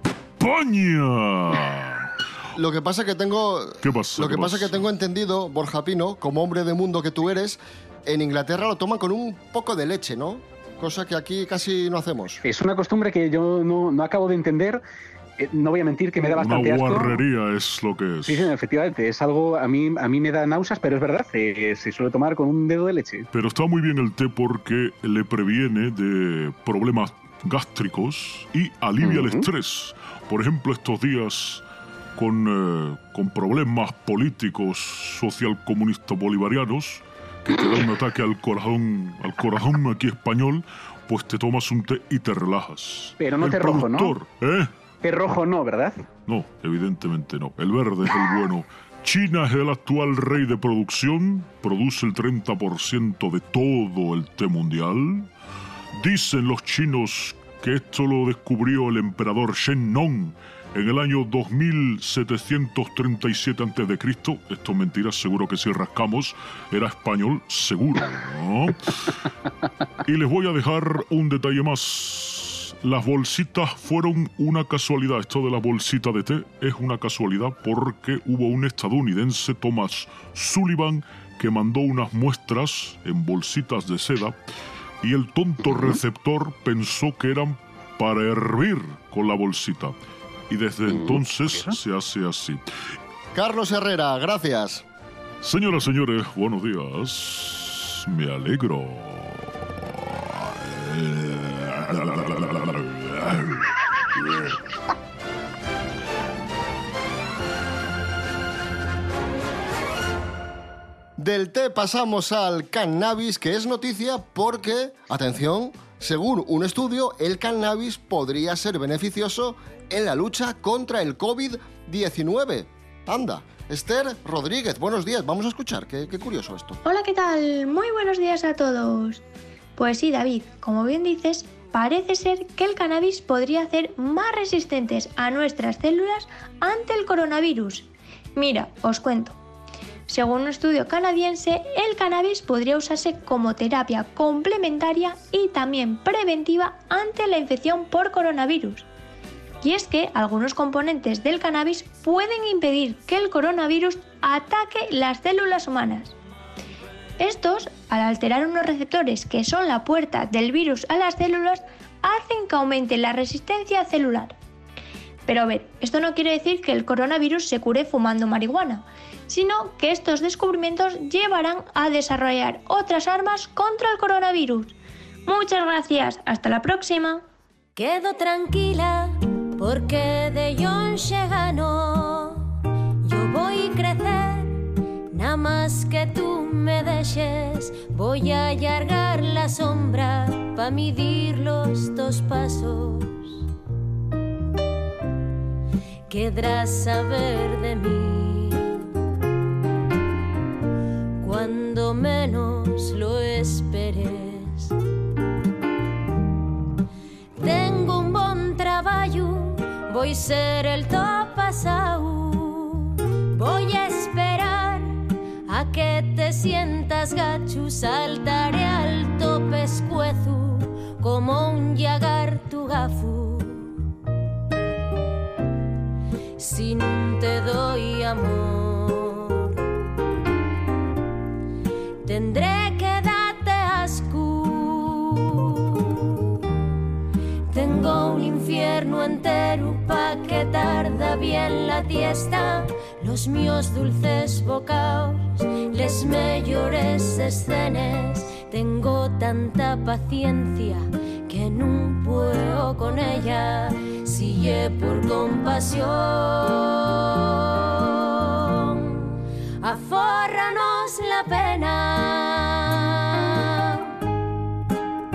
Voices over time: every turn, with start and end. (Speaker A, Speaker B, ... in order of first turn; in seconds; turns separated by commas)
Speaker A: 0.4-2.1, Speaker B: 2.5-12.4, Speaker A: 3.8-4.8, Speaker C: 12.4-14.8, Speaker C: 15.4-17.2, Speaker A: 16.3-18.5, Speaker C: 18.2-23.3, Speaker A: 23.3-31.6, Speaker C: 29.0-29.5, Speaker A: 32.1-44.7, Speaker C: 43.2-44.2, Speaker C: 45.0-46.0, Speaker A: 46.2-55.3, Speaker A: 56.0-69.1, Speaker A: 70.0-84.4, Speaker A: 85.0-89.9, Speaker A: 90.5-92.6, Speaker C: 90.9-91.8, Speaker B: 93.3-94.8, Speaker A: 95.4-104.5, Speaker B: 111.2-126.8, Speaker D: 126.8-129.2, Speaker D: 129.8-139.4, Speaker D: 140.1-148.9, Speaker D: 149.6-156.1, Speaker D: 157.2-164.3, Speaker D: 165.3-174.7, Speaker D: 175.2-177.2, Speaker E: 177.8-182.5, Speaker E: 183.0-184.6, Speaker E: 185.1-193.4, Speaker E: 196.1-198.8, Speaker E: 201.2-204.8, Speaker E: 207.3-223.8, Speaker E: 226.4-229.6, Speaker E: 232.0-236.3, Speaker E: 237.5-263.9